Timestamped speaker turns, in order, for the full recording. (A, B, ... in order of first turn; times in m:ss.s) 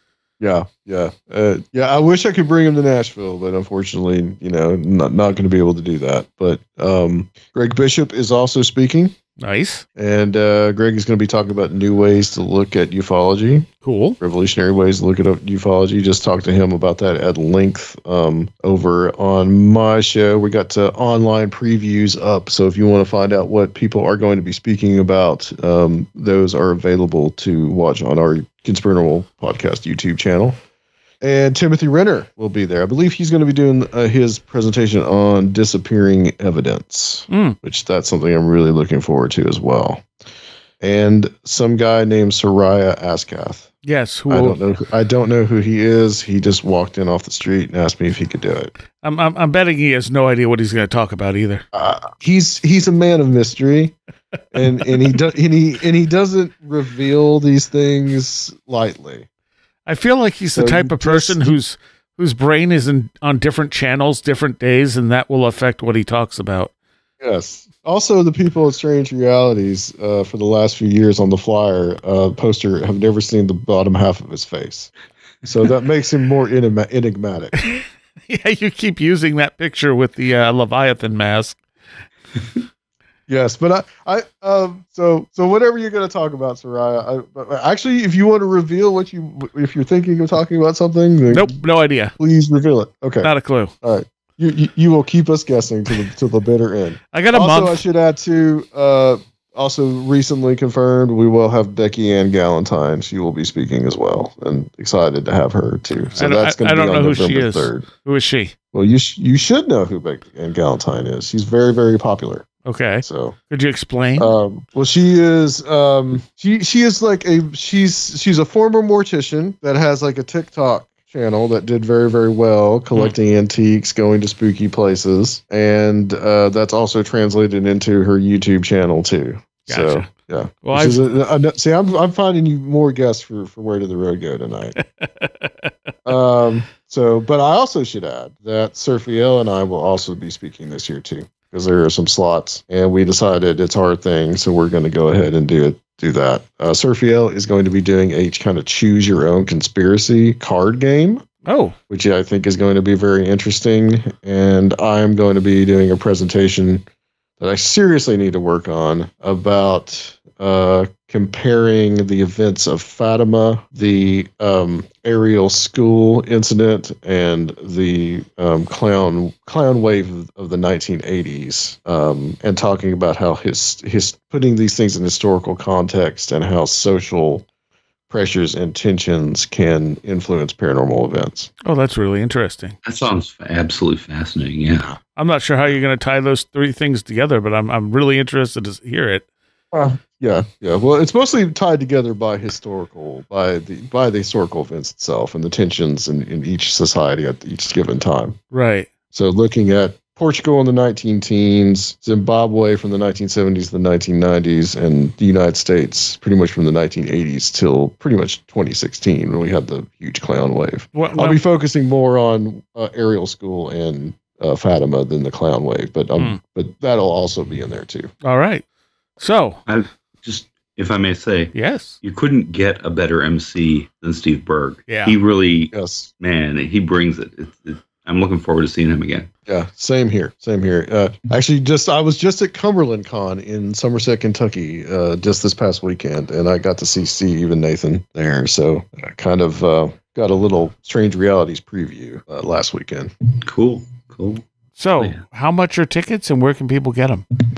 0:00.4-0:09.2 A
0:09.4-0:09.8 B
0:10.0-0:30.6 A
0:13.8-0:14.2 B
0:31.2-0:40.1 A
0:37.3-0:37.6 B
0:40.8-0:43.7 A
0:43.8-0:44.6 B
0:44.3-0:48.7 A
0:49.0-0:51.6 B
0:51.7-0:54.0 A
0:54.5-0:59.2 A
0:59.8-1:06.7 B
1:00.5-1:01.5 A
1:07.2-1:14.9 A
1:15.4-1:17.6 A
1:17.6-1:21.6 B
1:23.3-1:31.6 A
1:31.3-1:32.1 B
1:32.2-1:33.3 A
1:33.2-1:33.7 B
1:33.8-1:47.9 A
1:37.1-1:37.8 B
1:46.1-1:48.5 B
1:48.7-1:52.5 A
1:52.6-1:54.3 B
1:53.0-1:53.4 A
1:54.2-2:14.8 A
2:09.7-2:10.1 B
2:10.6-2:11.0 B
2:14.8-2:15.7 B
2:16.0-2:31.2 A
2:31.4-2:31.7 B
2:31.9-2:36.8 A
2:37.4-2:57.4 A
2:58.1-3:01.5 A
3:01.6-3:02.8 B
3:02.8-3:04.9 C
3:05.1-3:09.2 B
3:09.7-3:18.4 A
3:18.5-3:18.9 B
3:19.1-3:38.1 A
3:30.9-3:31.4 B
3:38.2-3:38.6 B
3:39.2-3:39.6 B
3:39.6-3:49.3 C
3:41.5-3:42.0 B
3:44.9-3:45.2 B
3:45.7-3:46.1 A
3:49.5-4:03.1 A
4:03.4-4:04.4 C
4:04.8-4:07.2 B
4:05.0-4:05.2 C